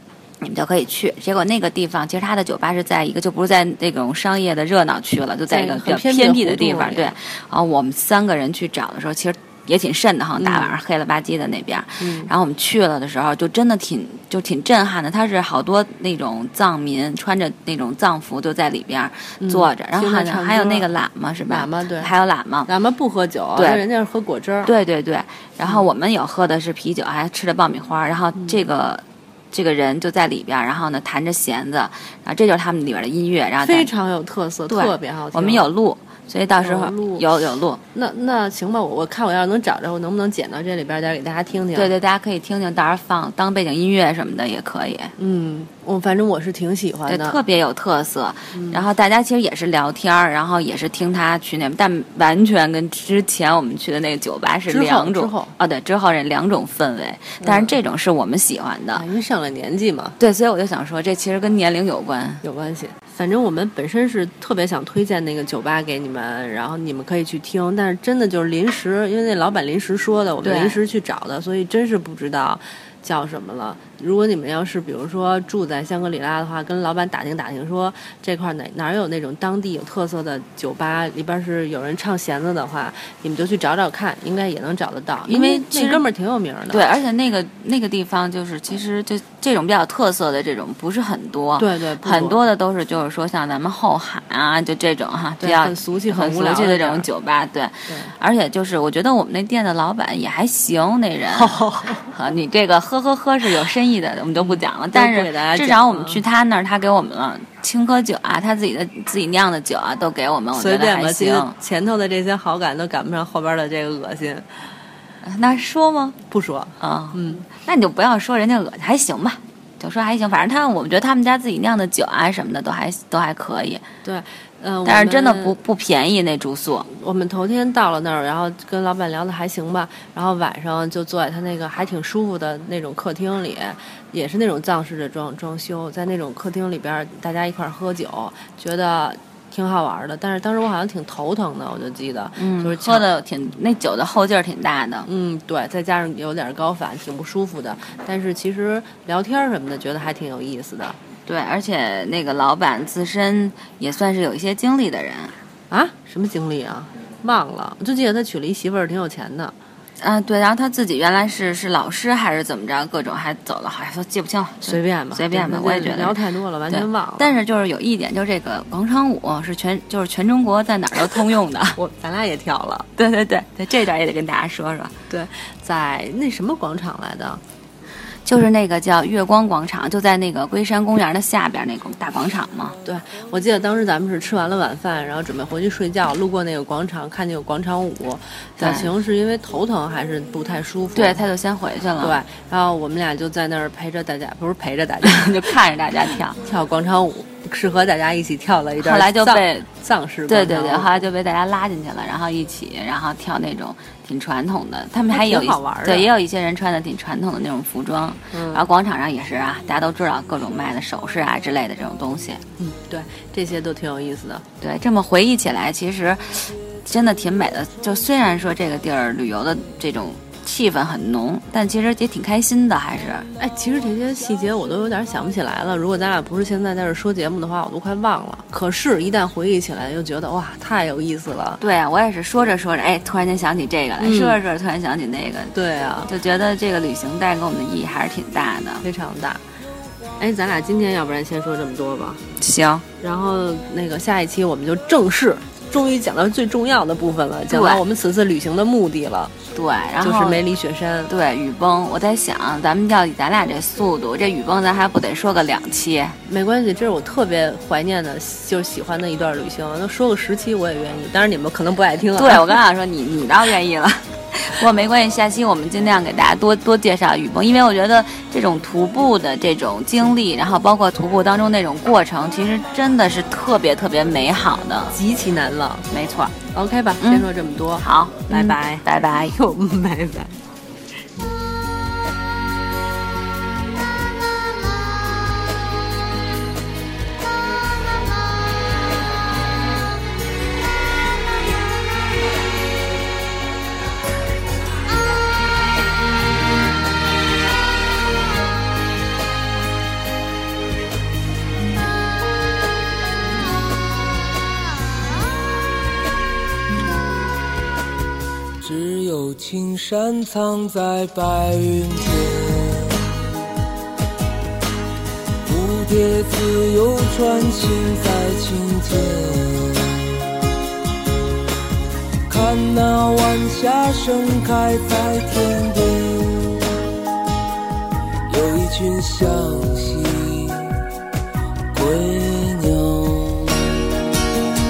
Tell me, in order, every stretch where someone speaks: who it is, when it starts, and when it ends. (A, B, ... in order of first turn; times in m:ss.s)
0:00.4-0:22.7 A
0:05.5-0:07.2 B
0:10.4-0:10.7 B
0:12.0-0:12.3 B
0:19.4-0:20.9 B
0:21.5-0:22.1 B
0:22.7-0:24.7 B
0:23.5-0:23.8 A
0:24.6-0:33.9 A
0:33.6-0:35.7 B
0:34.7-0:37.8 A
0:36.6-0:37.2 B
0:37.9-0:41.9 B
0:41.7-0:45.1 A
0:45.2-0:47.4 B
0:47.1-0:59.0 A
0:48.5-0:48.8 B
0:54.7-0:55.5 B
0:57.4-0:57.8 B
0:58.9-1:00.2 B
1:00.2-1:02.4 A
1:02.4-1:26.8 B
1:10.4-1:10.8 A
1:25.3-1:26.0 A
1:26.7-1:51.5 A
1:31.6-1:32.4 B
1:35.4-1:37.1 B
1:41.3-1:42.1 B
1:44.4-1:46.2 B
1:50.5-1:54.4 B
1:55.2-1:56.2 A
1:56.3-1:57.5 B
1:56.8-2:03.8 A
2:04.0-2:05.6 B
2:04.8-2:06.9 A
2:06.9-2:23.0 B
2:22.4-2:25.1 A
2:25.1-2:31.0 B
2:31.2-2:35.3 A
2:35.7-2:39.5 B
2:40.0-2:51.8 A
2:44.6-2:47.4 B
2:51.8-2:52.9 B
2:53.0-2:54.9 A
2:55.1-2:57.4 B
2:58.2-3:02.8 A
3:02.8-3:11.2 B
3:08.6-3:08.9 A
3:11.0-3:12.2 A
3:12.0-3:15.5 B
3:15.0-3:16.4 A
3:16.4-3:21.0 B
3:18.8-3:19.7 A
3:20.3-3:32.4 A
3:25.1-3:26.1 B
3:28.3-3:28.7 B
3:32.6-3:34.4 B
3:34.6-3:43.3 A
3:43.4-3:51.6 B
3:51.6-3:55.5 A
3:54.0-3:54.4 B
3:55.5-3:56.1 B
3:56.1-3:58.8 A
3:58.8-3:59.4 B
4:00.2-4:02.2 B
4:02.4-4:02.8 A
4:03.0-4:09.3 B
4:07.5-4:07.8 A
4:09.5-4:10.4 A
4:10.0-4:11.1 B
4:11.1-4:16.2 A
4:16.2-4:22.6 B
4:22.2-4:34.9 A
4:34.9-4:35.9 B
4:35.9-4:36.4 A
4:36.5-4:40.4 B
4:37.0-4:37.3 A
4:37.8-4:39.3 A
5:08.6-5:13.1 C
5:15.4-5:20.2 C
5:22.3-5:26.8 C
5:28.3-5:30.8 C
5:31.7-5:33.8 C